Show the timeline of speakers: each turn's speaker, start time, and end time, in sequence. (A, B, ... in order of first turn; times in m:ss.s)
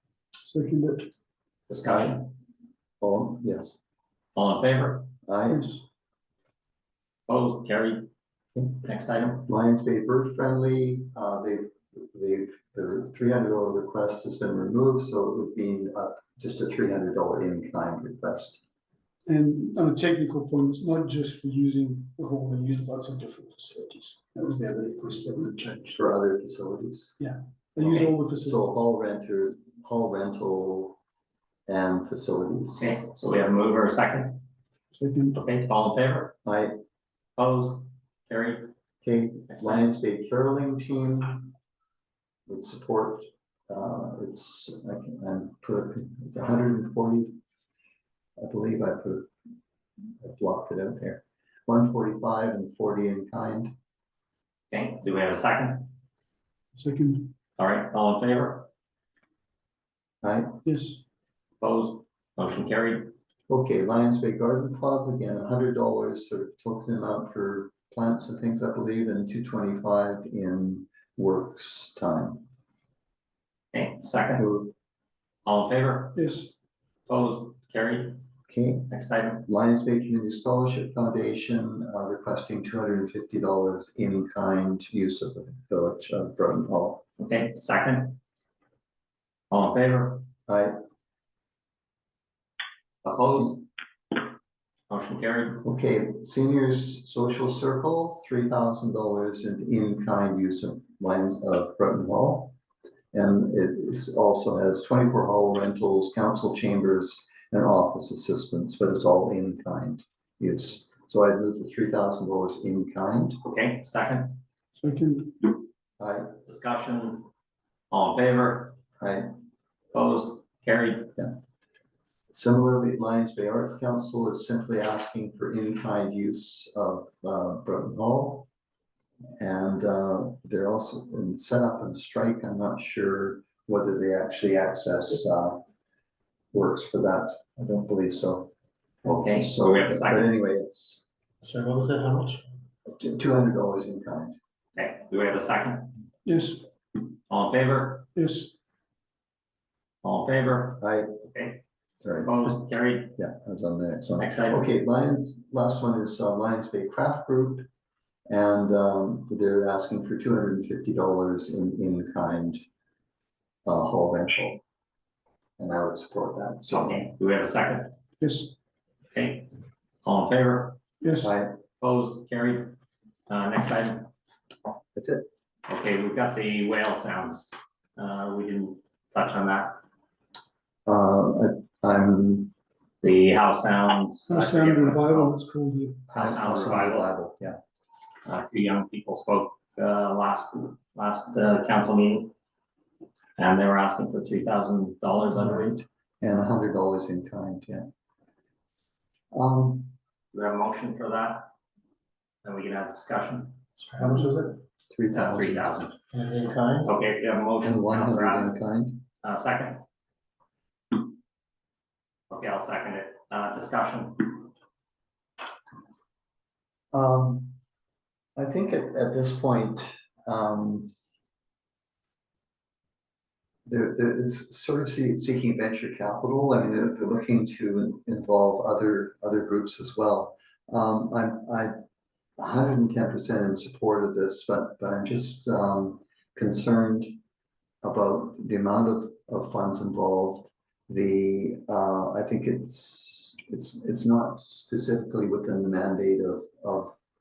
0:00.4-0:01.1 A
0:01.7-0:02.3 B
0:01.8-0:02.2 C
0:03.0-0:03.8 C
0:04.3-0:05.1 B
0:05.2-0:05.7 C
0:05.5-0:05.8 A
0:07.3-0:08.1 B
0:08.8-0:09.4 B
0:09.4-0:18.6 C
0:19.2-0:26.0 A
0:25.9-0:27.2 C
0:27.2-0:28.6 A
0:27.8-0:31.0 C
0:31.7-0:33.0 C
0:32.8-0:34.4 B
0:34.9-0:35.4 A
0:35.3-0:36.3 B
0:36.4-0:36.7 C
0:37.4-0:38.7 B
0:39.0-0:41.5 C
0:39.5-0:39.8 B
0:42.5-0:47.3 C
0:48.4-0:49.3 C
0:50.2-0:53.7 C
0:54.7-0:55.9 B
0:56.7-0:57.3 A
0:57.6-0:58.7 B
1:00.2-1:00.6 C
1:00.6-1:01.0 A
1:01.6-1:03.1 B
1:03.5-1:12.4 C
1:13.7-1:14.4 B
1:14.4-1:14.7 C
1:15.4-1:16.2 B
1:16.1-1:16.5 A
1:17.1-1:18.2 B
1:18.5-1:18.9 C
1:18.9-1:19.4 B
1:19.4-1:27.0 C
1:27.2-1:28.2 B
1:29.5-1:30.2 B
1:30.5-1:30.8 C
1:33.0-1:33.6 B
1:34.9-1:35.6 B
1:35.6-1:42.5 C
1:43.1-1:53.4 C
1:53.4-1:54.3 B
1:54.8-1:55.6 A
1:56.0-1:56.4 C
1:56.4-1:57.2 B
1:57.9-1:58.8 B
1:59.0-1:59.3 C
1:59.9-2:01.1 B
2:02.3-2:08.5 C
2:09.4-2:15.6 C
2:16.5-2:18.5 C
2:19.0-2:20.3 B
2:19.3-2:21.0 C
2:21.4-2:22.4 D
2:22.9-2:24.4 C
2:24.8-2:26.0 B
2:26.2-2:26.6 A
2:27.3-2:28.1 B
2:28.1-2:28.5 A
2:30.0-2:31.6 B
2:30.8-2:31.1 C
2:32.0-2:32.6 C
2:32.2-2:33.2 B
2:33.1-2:37.7 C
2:34.2-2:34.6 B
2:38.3-2:42.6 C
2:43.6-2:44.6 C
2:45.6-2:47.1 C
2:46.7-2:47.9 B
2:48.2-2:48.5 A
2:49.1-2:49.5 B
2:50.0-2:50.8 B
2:51.0-2:51.3 A
2:51.2-2:51.5 C
2:51.8-2:52.7 B
2:53.3-2:54.1 B
2:54.9-2:55.2 C
2:55.7-2:59.8 B
3:00.8-3:02.5 C
3:03.0-3:05.3 B
3:04.3-3:06.0 A
3:06.1-3:07.6 C
3:06.1-3:07.1 B
3:08.2-3:12.3 B
3:13.4-3:15.7 B
3:15.3-3:17.9 C
3:19.3-3:19.9 C
3:20.3-3:21.5 B
3:22.4-3:23.6 B
3:23.8-3:24.3 C
3:24.0-3:24.6 D
3:24.9-3:25.8 C
3:25.1-3:26.0 B
3:26.1-3:26.9 D
3:26.8-3:28.6 B
3:27.6-3:29.0 C
3:29.2-3:29.8 B
3:32.3-3:34.5 B
3:36.9-3:37.6 C
3:38.4-3:40.9 C
3:43.6-3:51.7 C
3:52.4-3:57.1 C
3:57.8-4:06.9 C